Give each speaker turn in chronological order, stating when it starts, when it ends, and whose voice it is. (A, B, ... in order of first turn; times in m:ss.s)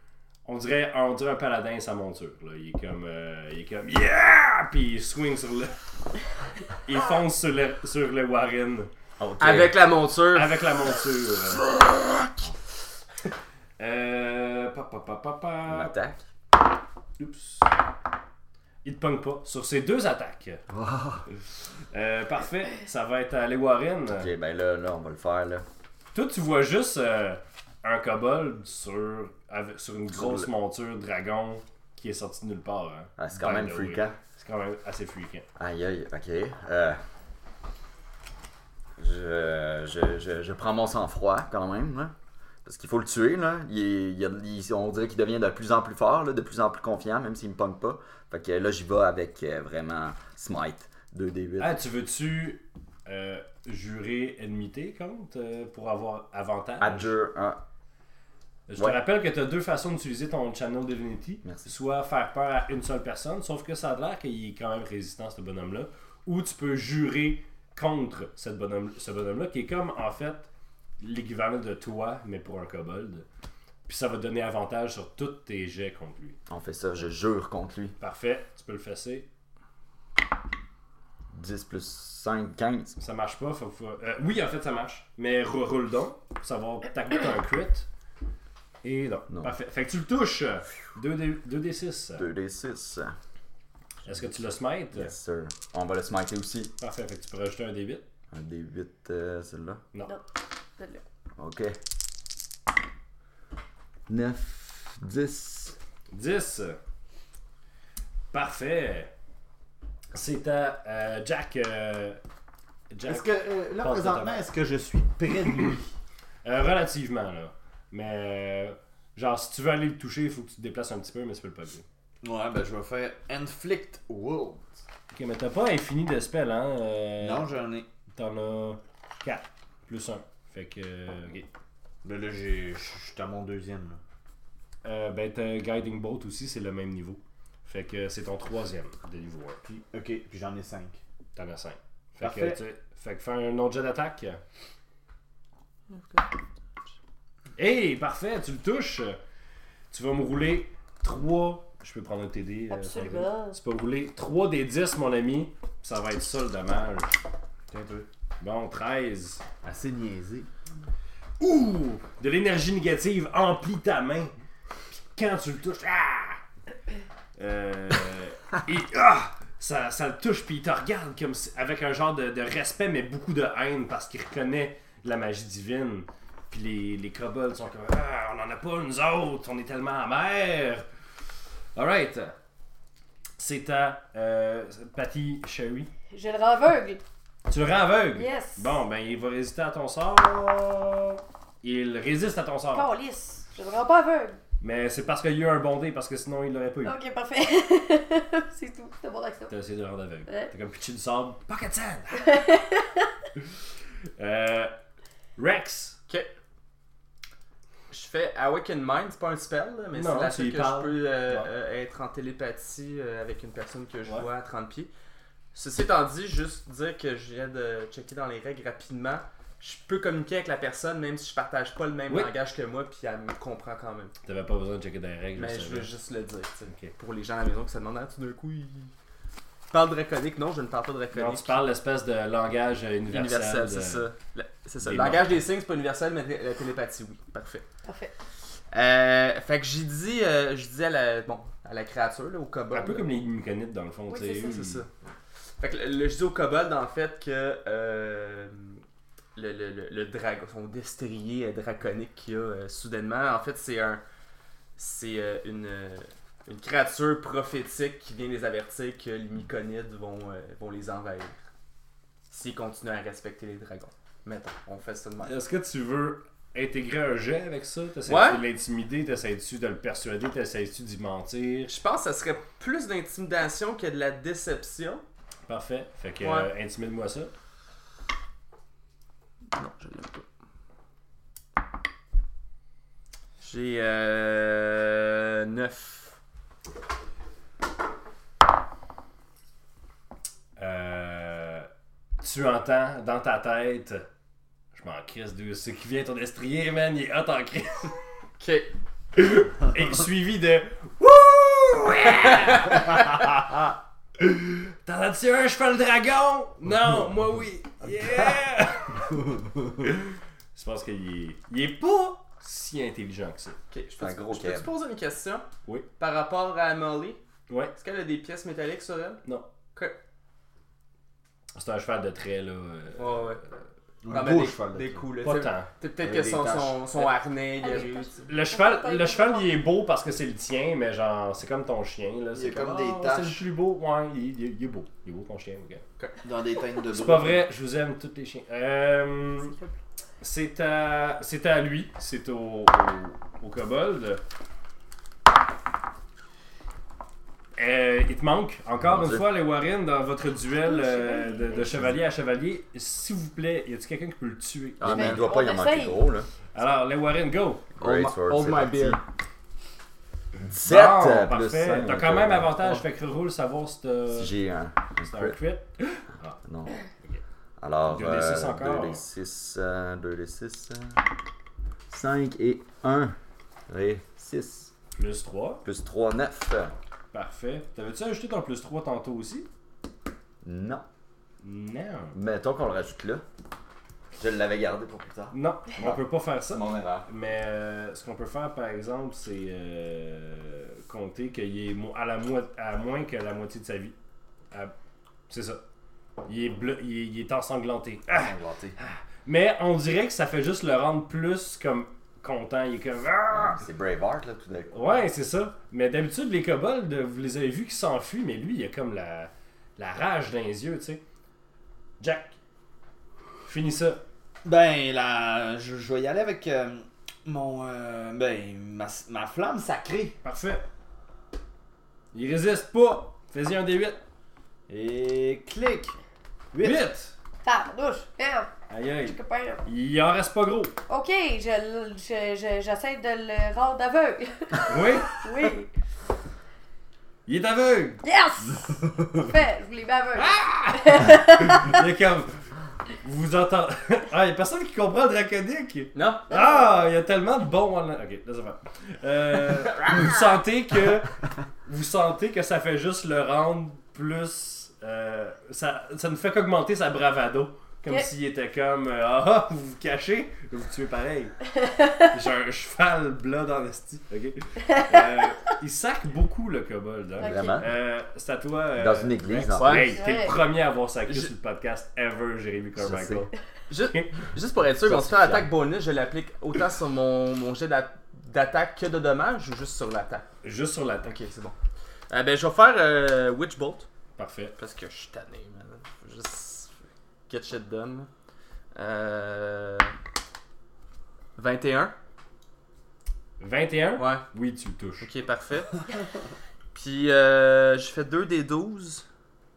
0:00.4-0:05.8 A
0:06.8-0:08.9 A
0:09.2-0:09.8 B
0:09.4-0:10.6 C
0:10.3-0:11.7 A
0:13.8-0:16.0 A
0:15.7-0:16.2 B
0:17.2-0:17.6 A
0:18.8-0:20.6 A
0:20.7-0:21.2 B
0:21.9-0:24.3 A
0:24.1-0:25.7 B
0:26.1-0:35.5 A
0:30.1-0:30.5 B
0:33.2-0:34.2 B
0:35.6-0:37.0 B
0:39.0-0:42.1 B
0:42.6-0:51.8 B
0:51.6-0:57.1 A
0:56.8-0:57.6 B
0:58.7-1:10.5 A
1:01.4-1:01.7 B
1:11.0-1:13.2 A
1:13.9-1:16.4 A
1:16.5-1:18.0 B
1:18.0-1:19.3 A
1:21.3-1:23.0 B
1:23.0-1:27.9 A
1:28.8-1:32.3 A
1:32.2-1:33.2 B
1:34.0-1:35.1 A
1:34.9-1:36.7 B
1:36.8-1:38.0 A
1:38.3-1:39.8 B
1:40.8-1:41.0 D
1:41.4-1:41.8 B
1:44.1-1:45.8 B
1:46.1-1:46.8 A
1:48.3-1:49.1 A
1:50.1-1:52.2 A
1:52.9-1:54.4 A
1:53.1-1:55.9 E
1:56.4-2:01.8 A
2:02.2-2:04.8 E
2:05.1-2:07.5 A
2:07.2-2:07.8 E
2:08.1-2:11.5 A
2:12.0-2:14.0 E
2:14.8-2:19.6 A
2:19.7-2:21.0 E
2:21.4-2:24.4 A
2:22.2-2:22.6 E
2:25.9-2:26.3 C
2:27.6-2:29.2 A
2:29.9-2:37.1 A
2:32.7-2:33.6 D
2:37.7-2:38.1 E
2:38.4-2:39.4 A
2:39.6-2:40.5 E
2:41.4-2:44.3 A
2:45.1-2:46.4 A
2:47.4-3:00.8 A
3:01.8-3:02.4 A
3:03.4-3:05.9 A
3:06.1-3:07.0 D
3:07.5-3:12.9 A
3:08.2-3:08.8 D
3:12.7-3:14.4 D
3:14.6-3:17.0 A
3:16.8-3:19.5 D
3:19.5-3:22.4 A
3:20.3-3:20.5 D
3:22.2-3:23.1 D
3:24.2-3:24.7 A
3:25.4-3:26.0 A
3:27.9-3:34.9 C
3:29.9-3:31.5 A
3:35.5-3:44.1 C
3:44.2-3:45.9 A
3:45.4-3:48.9 C
3:46.7-3:47.0 A
3:49.7-3:51.6 C
3:51.1-3:54.0 A
3:53.1-3:57.6 C
3:54.8-3:55.4 A
3:57.8-3:58.1 D
3:58.7-4:03.1 C
4:02.7-4:04.8 A
4:04.1-4:04.9 C
4:04.1-4:04.5 D
4:05.6-4:08.8 C
4:09.4-4:14.0 C
4:14.8-4:21.4 C
4:22.3-4:25.3 C
4:25.2-4:31.7 A
4:28.1-4:28.4 C
4:31.7-4:35.0 C
4:35.5-4:37.3 A
4:36.2-4:36.5 C
4:39.6-4:40.2 C
4:43.4-4:46.2 C
4:50.6-4:51.7 A
4:52.2-4:54.1 A
4:54.7-4:58.0 A
4:58.4-4:58.7 C
4:59.2-5:09.2 A
5:02.2-5:02.8 C
5:09.8-5:10.0 A
5:10.6-5:13.6 A
5:13.7-5:15.4 C
5:14.0-5:14.7 B
5:16.0-5:17.2 C
5:17.8-5:19.2 C
5:21.6-5:23.4 A
5:23.0-5:23.4 C
5:24.0-5:25.1 E
5:24.1-5:28.3 C
5:25.2-5:25.7 A
5:26.0-5:26.8 E
5:27.6-5:29.6 D
5:28.3-5:35.8 A
5:32.3-5:33.4 E
5:36.2-5:37.4 E
5:36.9-5:39.6 A
5:40.2-5:44.2 A
5:47.6-5:55.2 A
5:48.8-5:49.3 B
5:50.6-5:51.9 D
5:54.8-5:56.3 B
5:54.8-5:56.0 D
5:56.6-5:57.8 A
5:57.8-5:59.0 B
5:57.8-5:59.0 C
6:00.4-6:02.6 B
6:00.6-6:04.4 A
6:04.1-6:05.4 B
6:05.0-6:06.4 A
6:06.4-6:06.7 B
6:07.6-6:11.0 B
6:07.9-6:09.0 A
6:11.9-6:13.2 B
6:13.7-6:14.7 B
6:15.0-6:15.6 A
6:15.6-6:16.7 B
6:17.1-6:19.5 A
6:20.4-6:20.8 B
6:21.4-6:22.2 A
6:22.1-6:23.2 B
6:24.1-6:27.1 B
6:25.3-6:34.0 A
6:35.3-6:35.6 A
6:36.3-6:43.6 A
6:38.1-6:38.7 B
6:43.3-6:44.9 B
6:44.7-6:51.0 A
6:52.0-6:52.4 A
6:53.5-6:54.0 A
6:54.4-7:00.2 E
7:00.2-7:00.6 A
7:02.1-7:04.0 A
7:04.7-7:06.0 E
7:06.5-7:06.8 E
7:06.6-7:07.1 A
7:07.4-7:08.5 D
7:08.7-7:10.8 A
7:09.0-7:09.6 D
7:10.9-7:15.7 D
7:14.7-7:15.5 A
7:17.3-7:18.0 A
7:18.0-7:21.8 D
7:20.2-7:22.5 A
7:23.0-7:41.4 A
7:25.9-7:26.3 C
7:41.6-7:42.1 D
7:42.1-7:53.3 A
7:47.2-7:47.6 D
7:47.2-7:47.7 B
7:48.8-7:49.9 B
7:49.6-7:50.0 C
7:49.9-7:50.4 D
7:52.8-7:53.3 B
7:53.7-8:00.3 C
7:54.9-7:55.5 B
8:00.4-8:01.2 A
8:01.0-8:01.6 C
8:02.1-8:03.9 C
8:04.2-8:04.6 A
8:04.6-8:06.8 C
8:07.3-8:08.1 C
8:08.8-8:09.9 C
8:11.4-8:11.9 C
8:13.4-8:15.1 A
8:14.0-8:14.2 C
8:15.0-8:15.8 C
8:16.7-8:19.0 C